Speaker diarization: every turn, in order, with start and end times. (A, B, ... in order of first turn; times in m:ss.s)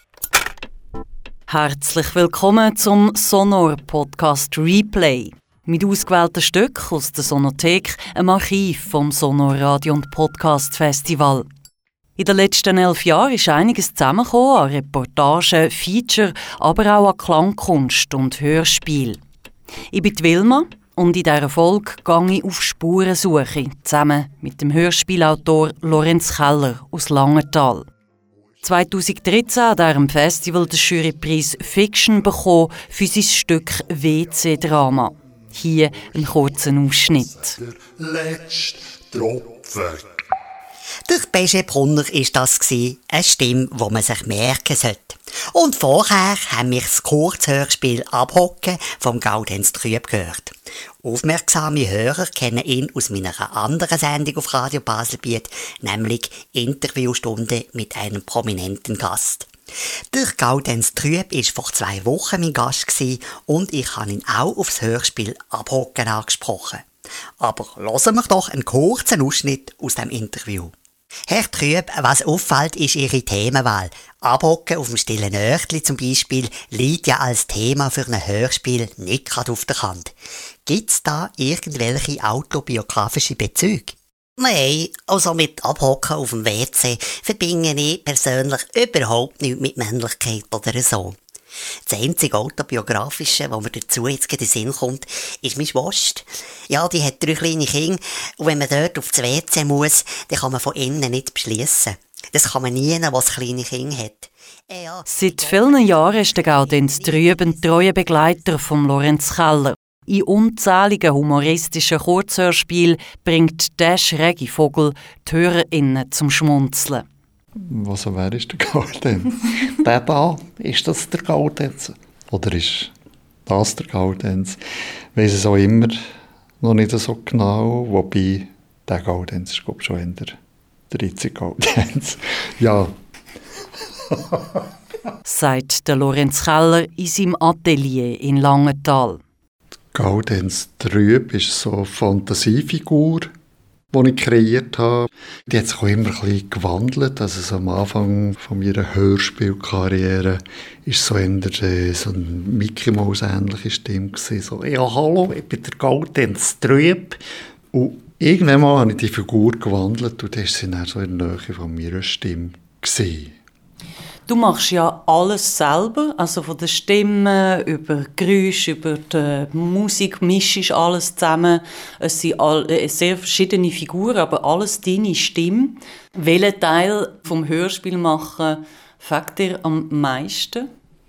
0:01.5-0:11.5 A
0:12.2-0:19.2 A
0:19.9-0:27.9 A
0:28.6-0:37.6 A
0:37.6-0:40.1 B
0:41.1-0:59.5 C
1:00.1-1:06.8 C
1:07.4-1:10.7 C
1:11.3-1:20.1 C
1:20.6-1:31.2 C
1:31.8-1:48.5 C
1:45.1-1:57.0 A
1:57.6-2:02.9 D
2:03.4-2:04.6 D
2:05.1-2:06.0 D
2:06.6-2:10.4 D
2:10.9-2:12.9 D
2:14.1-2:14.6 D
2:15.2-2:19.2 A
2:19.9-2:23.3 D
2:23.9-2:37.2 D
2:37.7-2:43.4 D
2:44.3-3:00.7 A